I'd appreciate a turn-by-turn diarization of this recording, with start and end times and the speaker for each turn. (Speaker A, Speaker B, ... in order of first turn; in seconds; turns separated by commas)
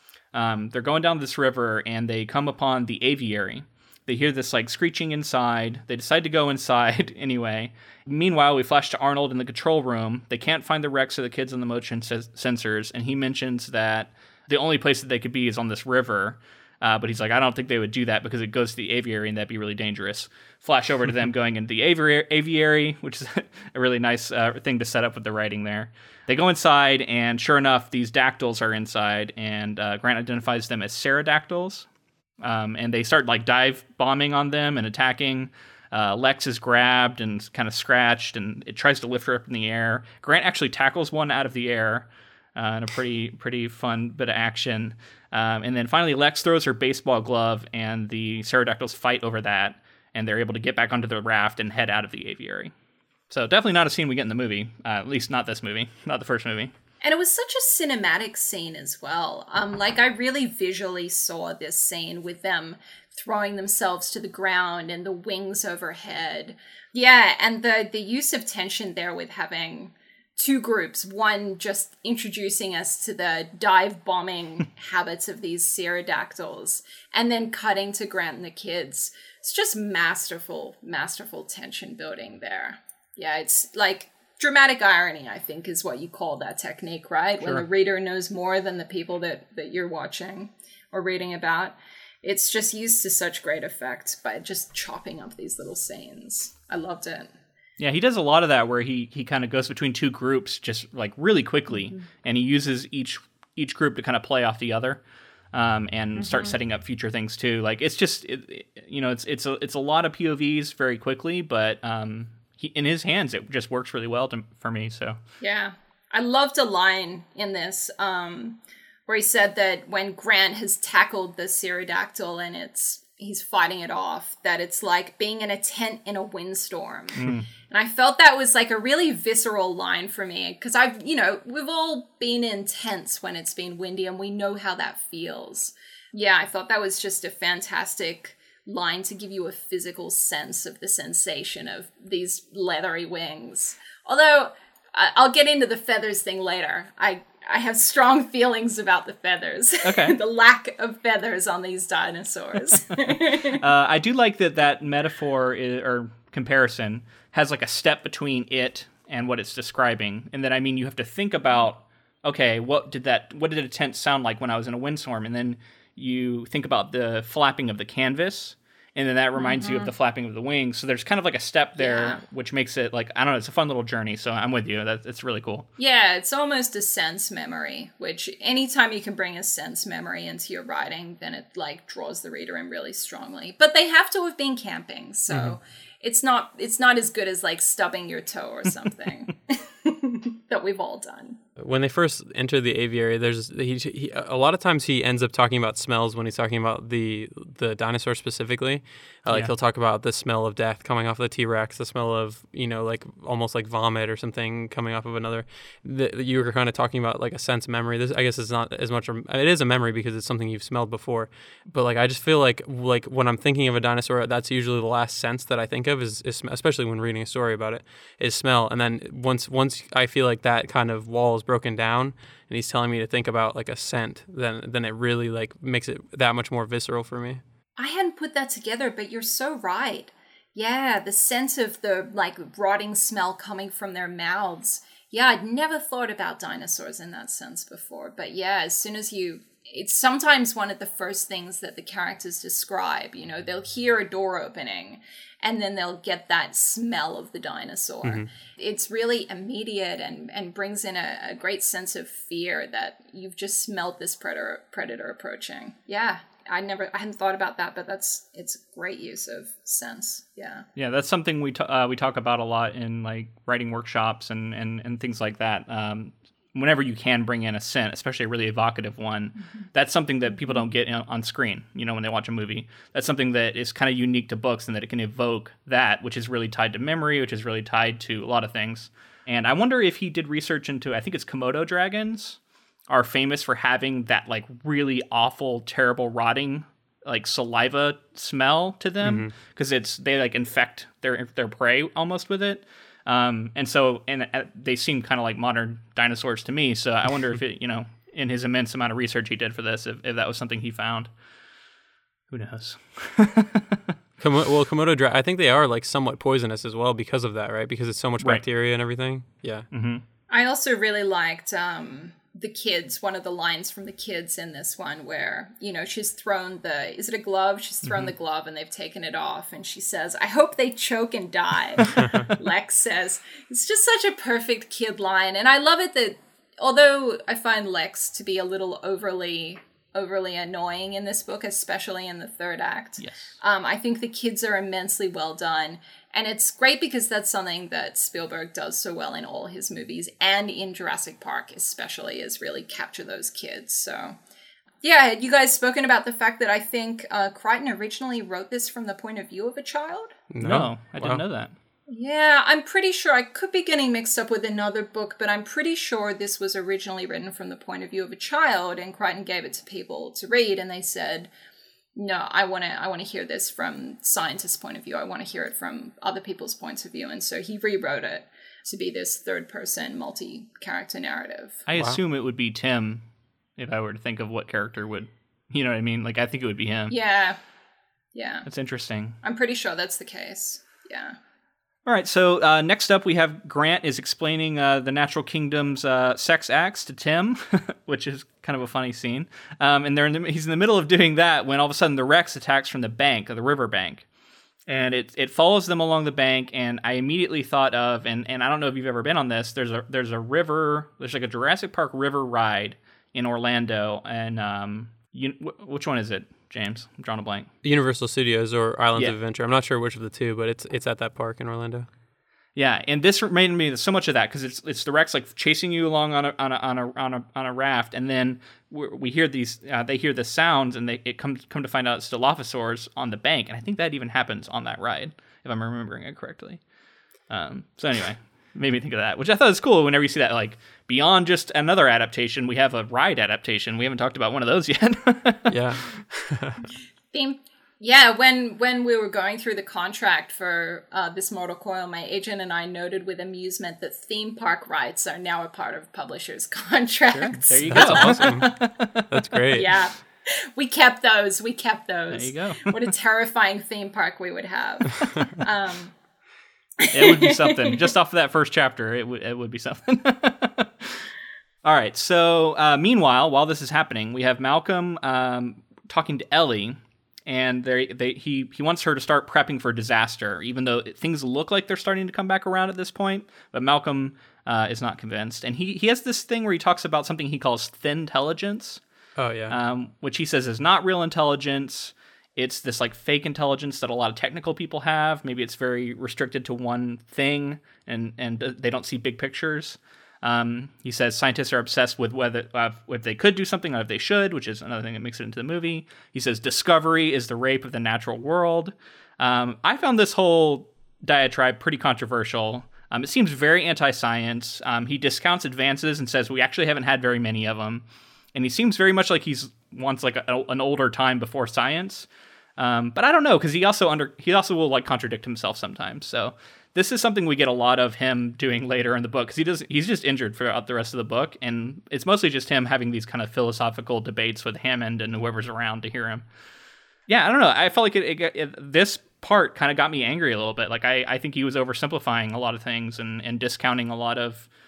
Speaker A: 0.3-31.9, Speaker A: 32.4-52.7, Speaker A: 53.3-56.7, Speaker B: 57.0-97.3, Speaker A: 97.8-105.0, Speaker A: 105.5-115.2, Speaker B: 106.3-106.5, Speaker B: 115.4-153.6, Speaker A: 127.2-127.5, Speaker A: 149.8-150.2, Speaker A: 153.1-175.7, Speaker B: 169.4-169.9, Speaker B: 171.8-172.2, Speaker B: 175.8-191.4, Speaker C: 191.6-227.4, Speaker B: 227.8-260.7, Speaker A: 260.8-301.1, Speaker C: 289.0-289.3, Speaker A: 302.3-303.9, Speaker C: 304.2-309.7, Speaker A: 309.7-310.0, Speaker B: 310.3-344.2, Speaker A: 317.9-318.1, Speaker A: 322.0-322.3, Speaker A: 333.0-333.3, Speaker B: 344.8-350.2, Speaker C: 350.3-351.2, Speaker A: 350.4-351.5, Speaker B: 351.9-361.3, Speaker B: 362.0-371.6, Speaker A: 371.7-373.1, Speaker A: 373.6-376.9, Speaker B: 376.9-377.4, Speaker B: 378.1-378.5, Speaker A: 378.5-379.2, Speaker B: 379.2-381.2, Speaker A: 381.9-394.1, Speaker A: 394.7-407.5, Speaker C: 407.6-411.9, Speaker A: 412.6-426.6, Speaker A: 427.3-435.5, Speaker C: 435.5-436.6, Speaker B: 437.1-448.5, Speaker A: 447.1-449.1, Speaker C: 447.7-448.5, Speaker C: 449.1-449.7, Speaker B: 449.5-455.9, Speaker A: 452.1-452.9, Speaker B: 456.8-457.9, Speaker A: 456.9-461.1, Speaker A: 461.6-478.8, Speaker C: 479.2-479.6, Speaker A: 479.5-526.3, Speaker A: 527.1-534.5